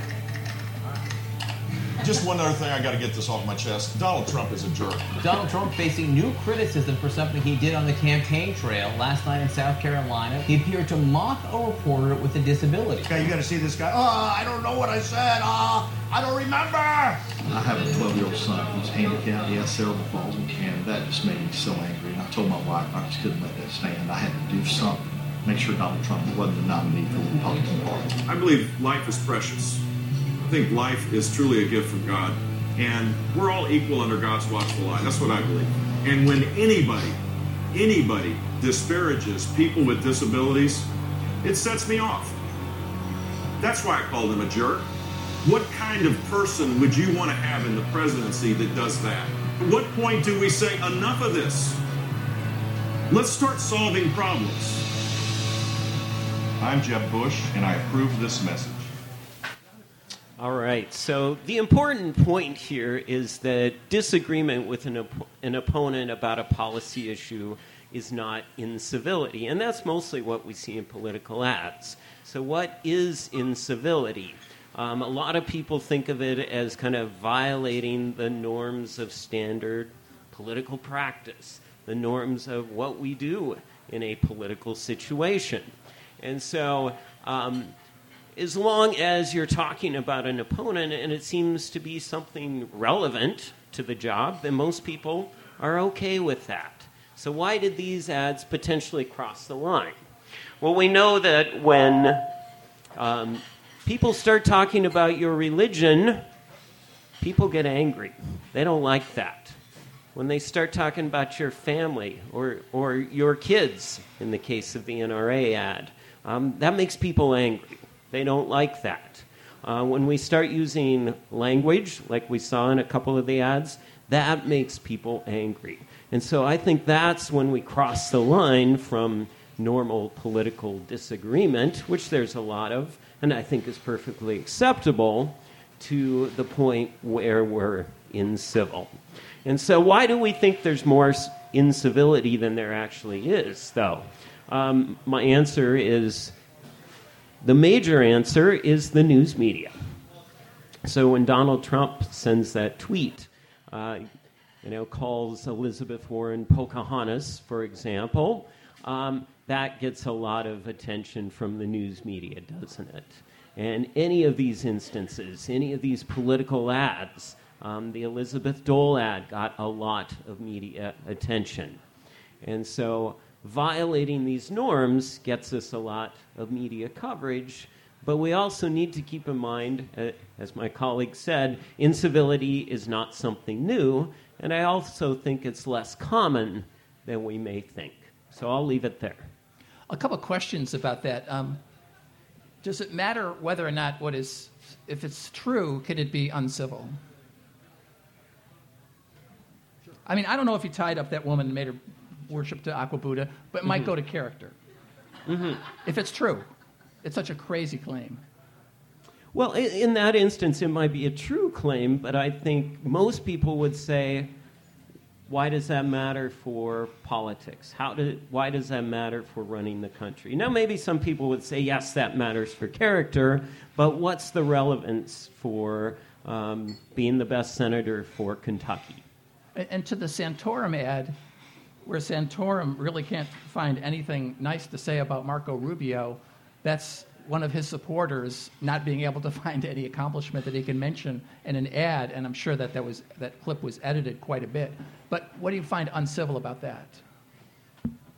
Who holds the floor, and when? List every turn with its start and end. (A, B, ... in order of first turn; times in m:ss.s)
0:02.0-0:05.1 A
0:05.2-0:13.2 B
0:13.1-0:17.2 C
0:17.5-0:28.1 D
0:28.3-0:29.8 A
0:30.4-0:37.2 A
0:37.7-0:40.9 A
0:41.4-0:42.4 A
0:43.6-0:44.9 A
0:45.4-0:51.8 A
0:53.1-0:54.8 A
0:56.6-0:58.9 A
1:00.4-1:27.7 E
1:28.3-1:40.0 E
1:40.6-1:42.2 E
1:43.0-1:46.2 E
1:47.2-1:49.6 E
1:50.1-2:26.3 E
2:27.4-2:30.0 E
2:30.8-2:34.0 E
2:34.6-2:51.8 E
2:52.4-3:09.3 E
3:09.9-3:11.6 F
3:12.6-3:17.0 F
3:20.0-3:24.5 F
3:25.3-3:25.6 E
3:25.8-3:26.5 F
3:27.0-3:28.2 F
3:29.3-3:34.3 E
3:35.3-3:49.0 E
3:49.5-3:51.2 F
3:51.8-4:07.0 F